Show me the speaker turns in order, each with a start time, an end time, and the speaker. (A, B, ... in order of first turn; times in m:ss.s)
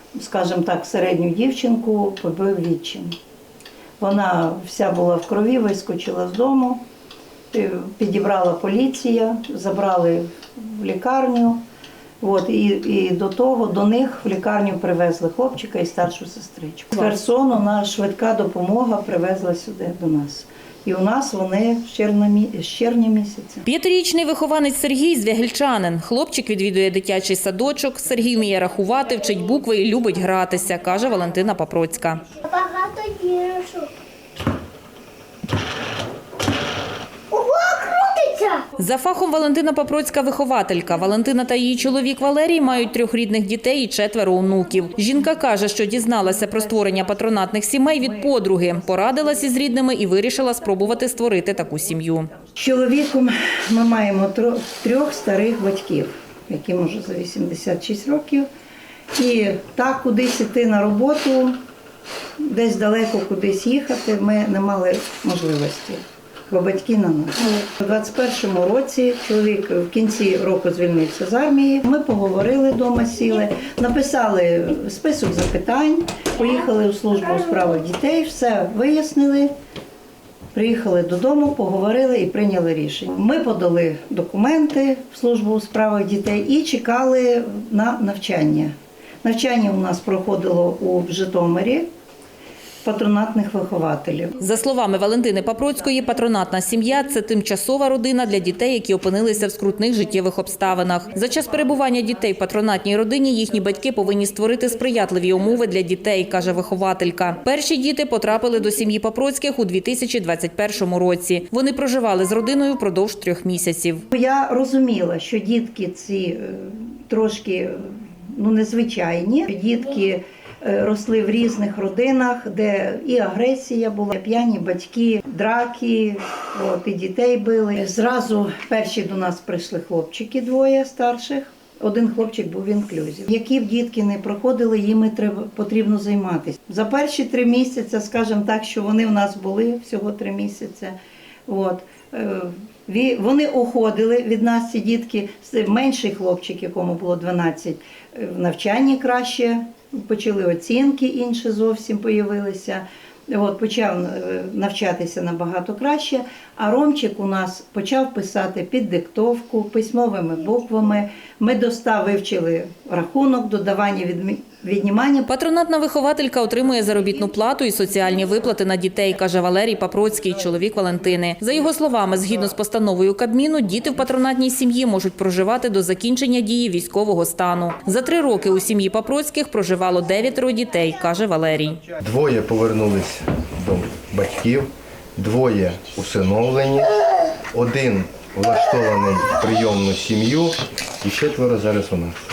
0:00.2-0:03.1 A
0:04.0-0:06.8 A
0:07.5-0:11.6 A
0:12.2-0:23.6 A
0:23.6-0:32.2 B
0:32.4-0:33.9 C
0:37.3-0:38.6 C
0:38.8-0:52.3 B
0:52.6-0:58.5 A
0:59.1-1:01.6 A
1:02.4-1:19.5 A
1:20.5-1:31.9 A
1:32.8-1:34.4 A
1:34.4-1:54.0 B
1:54.1-2:20.9 A
2:21.5-2:45.3 A
2:45.3-3:01.8 B
3:02.0-3:07.0 D
3:07.5-3:12.2 D